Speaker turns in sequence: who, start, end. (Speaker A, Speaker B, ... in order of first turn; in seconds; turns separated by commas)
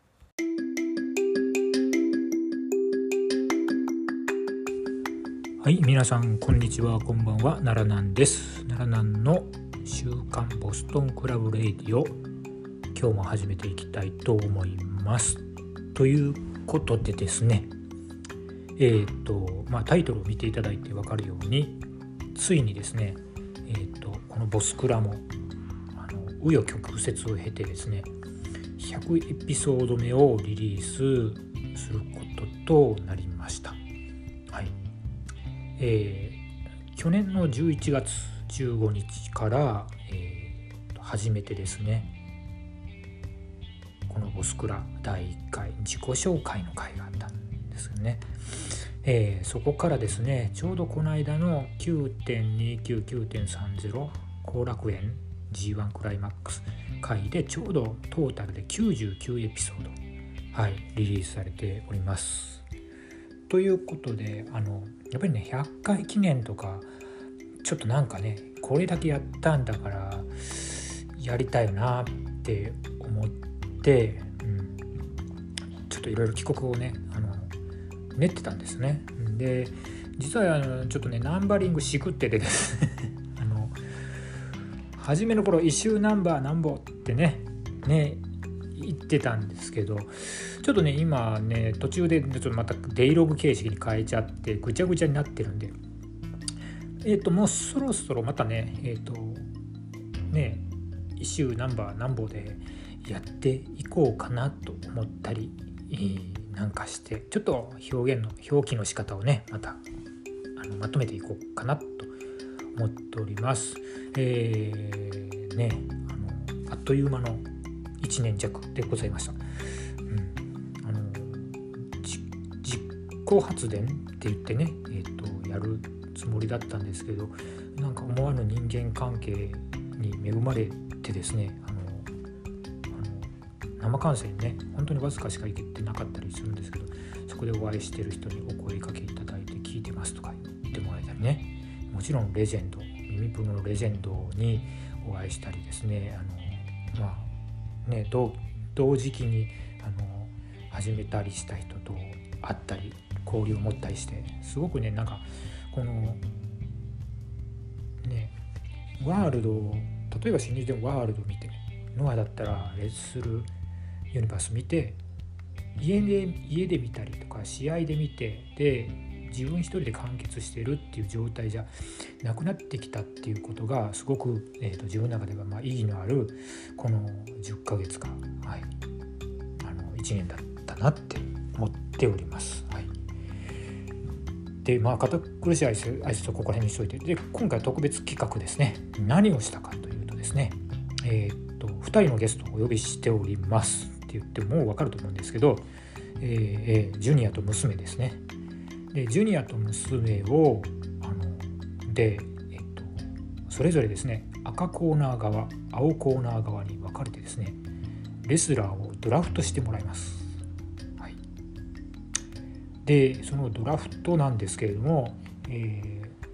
Speaker A: 5.6-12.1, Speaker A: 12.9-15.4, Speaker A: 15.9-17.7, Speaker A: 18.8-21.8, Speaker A: 22.4-25.2, Speaker A: 25.9-28.1, Speaker A: 28.8-33.8, Speaker A: 35.8-36.4, Speaker A: 37.0-42.1, Speaker A: 44.1-60.0, Speaker A: 60.5-62.6, Speaker A: 63.5-66.9, Speaker A: 67.6-74.8, Speaker A: 75.9-77.5, Speaker A: 78.2-83.8, Speaker A: 85.0-88.2, Speaker A: 88.8-95.7, Speaker A: 97.0-99.5, Speaker A: 100.3-100.7, Speaker A: 101.2-109.8, Speaker A: 110.6-112.1, Speaker A: 112.8-117.5, Speaker A: 118.0-119.4, Speaker A: 120.1-132.1, Speaker A: 132.9-147.3, Speaker A: 147.8-156.2, Speaker A: 158.0-158.3, Speaker A: 159.0-163.5, Speaker A: 164.1-165.0, Speaker A: 165.8-171.7, Speaker A: 172.2-178.7, Speaker A: 179.6-182.9, Speaker A: 184.6-195.7, Speaker A: 196.2-198.2, Speaker A: 198.9-207.6, Speaker A: 208.2-210.3, Speaker A: 212.8-216.1